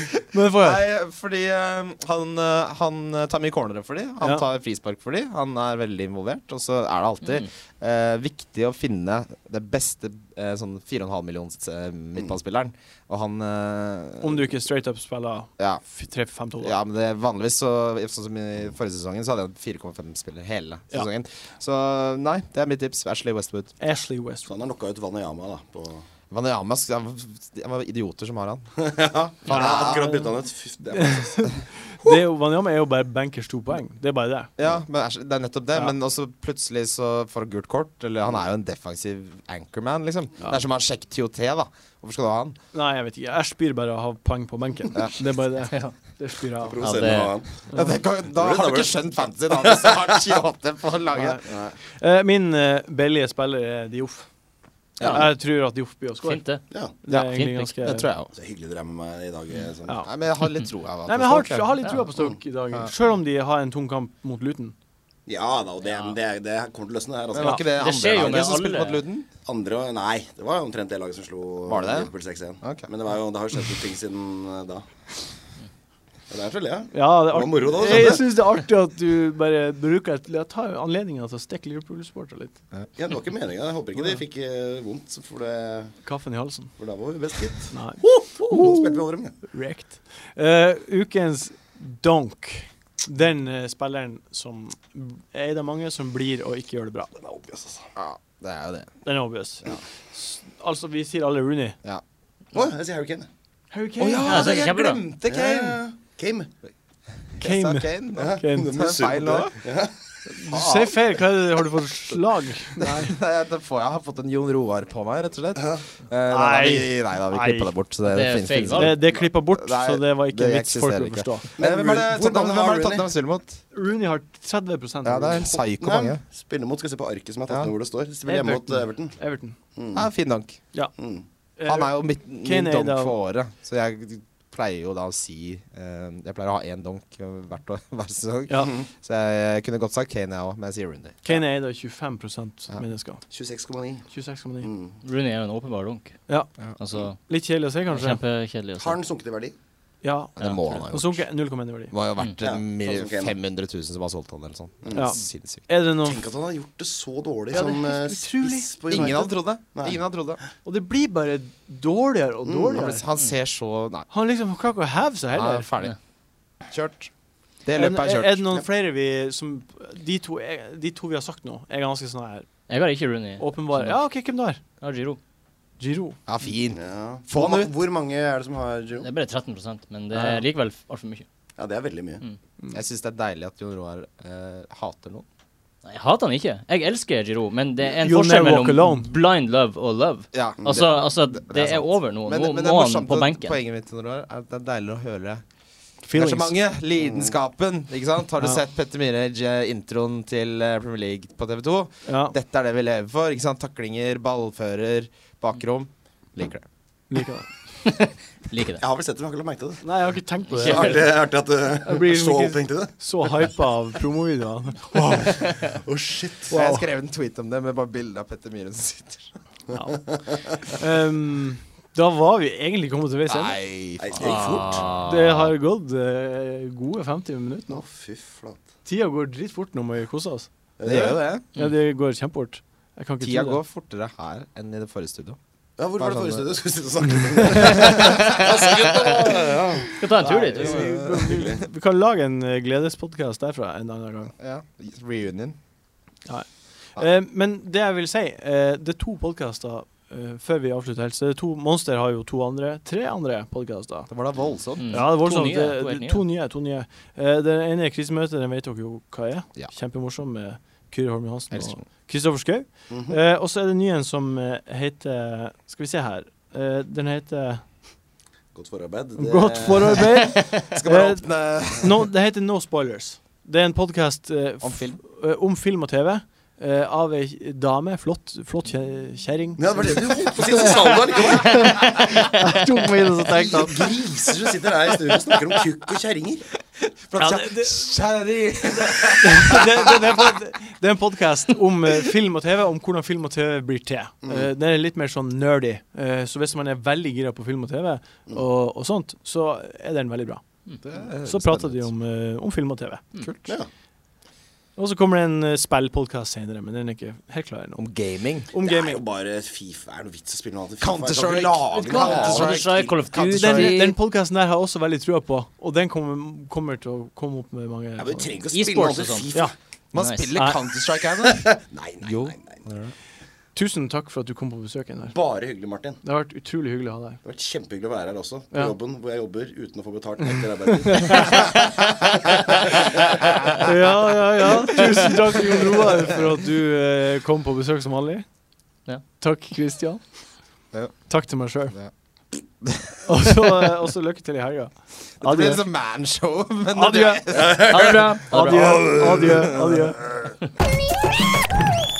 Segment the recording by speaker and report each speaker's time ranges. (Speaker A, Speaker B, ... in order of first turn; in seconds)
Speaker A: 0.3-0.8, 14.2-16.8, 23.8-24.5, 29.5-30.3, 30.9-34.5, 42.7-46.9, 51.1-54.3, 55.0-58.1, 61.1-64.7, 76.9-82.6, 86.0-86.8, 87.7-97.1, 99.0-101.8, 103.7-104.6, 107.4-108.9, 110.2-113.2, 116.3-117.7, 118.7-121.5, 123.7-125.5, 128.2-129.6, 131.6-133.1, 138.5-138.7, 141.2-143.2, 144.1-144.7, 147.3-148.2, 150.0-150.3, 150.9-151.9, 154.9-156.2, 157.5-159.1, 160.6-163.0, 164.1-165.7, 167.7-172.5, 173.4-174.6, 175.8-176.2, 180.1-180.4, 188.0-189.1, 196.0-196.6, 202.1-202.3, 207.1-207.5, 209.8-211.1, 211.8-215.4, 216.5-216.9, 219.7-220.0, 220.5-223.6, 225.0-227.8, 228.8-230.5, 231.5-233.6, 237.5-237.9, 240.2-244.3, 246.2-254.1, 254.9-267.6, 269.1-283.9, 287.1-287.9, 289.2-300.4, 301.2-303.0, 304.8-307.8, 308.5-309.0, 313.3-318.3, 323.5-325.1, 326.0-327.2, 330.8-331.4, 333.6-338.2, 339.2-340.2, 341.1-341.8, 343.1-345.6, 346.7-347.5, 348.3-350.1
Speaker B: 0.6-14.4, 16.6-23.7, 26.3-28.7, 29.4-30.0, 34.6-42.5, 47.7-51.4, 55.0-55.2, 57.1-58.3, 60.0-62.0, 67.3-69.3, 71.7-72.1, 72.6-72.9, 98.0-99.0, 104.0-105.8, 107.4-109.5, 110.5-110.9, 112.8-123.6, 125.0-126.2, 129.9-130.6, 131.7-141.2, 150.4-151.2, 151.9-155.6, 158.9-160.4, 162.7-164.1, 165.3-165.9, 166.7-167.1, 167.6-168.4, 176.3-177.7, 182.7-185.2, 190.3-195.4, 196.1-206.7, 216.5-219.3, 223.3-224.9, 230.8-231.4, 233.2-235.4, 236.0-236.4, 237.8-238.2, 240.7-241.4, 244.4-245.6, 254.1-254.9, 261.5-261.8, 270.5-272.1, 274.6-275.0, 286.8-289.9, 300.8-301.9, 303.2-303.5, 307.8-308.5, 310.8-313.8, 319.9-322.9, 342.6-342.9, 345.2-347.9
Speaker C: 24.4-26.0, 28.8-32.1, 46.6-47.6, 48.3-50.4, 58.3-60.0, 65.3-68.5, 69.4-74.9, 76.3-78.3, 83.0-86.0, 86.8-89.3, 97.2-97.9, 102.5-103.3, 105.2-106.5, 108.1-110.1, 115.6-115.8, 121.6-123.1, 125.7-129.2, 129.7-130.1, 131.0-131.2, 143.3-144.1, 144.6-145.0, 148.8-149.6, 152.4-153.3, 154.8-155.1, 156.0-160.0, 162.4-162.9, 176.7-179.1, 181.6-182.2, 197.0-197.3, 208.8-209.8, 210.5-212.9, 215.6-216.5, 219.7-220.4, 224.0-224.8, 227.7-228.6, 230.8-231.2, 235.8-240.0, 240.8-241.6, 262.9-263.2, 268.5-270.1, 279.6-281.9, 283.3-286.4, 294.2-294.5, 308.6-313.0, 318.0-319.5, 321.2-322.6, 325.1-326.0, 327.2-331.6, 332.5-333.6, 347.3-349.7
Speaker D: 45.7-45.9, 46.8-47.6, 55.0-55.4, 56.2-56.6, 57.3-57.7, 65.8-66.1, 67.7-69.0, 104.2-105.0, 118.0-119.0, 145.0-146.2, 146.8-147.2, 147.9-149.0, 150.4-150.8, 172.7-174.0, 174.8-175.2, 179.0-181.2, 185.8-193.6, 207.8-208.8, 210.6-211.0, 224.2-225.5, 238.0-240.9, 254.8-256.2, 311.7-314.0, 318.5-319.3, 319.9-320.3, 347.6-348.9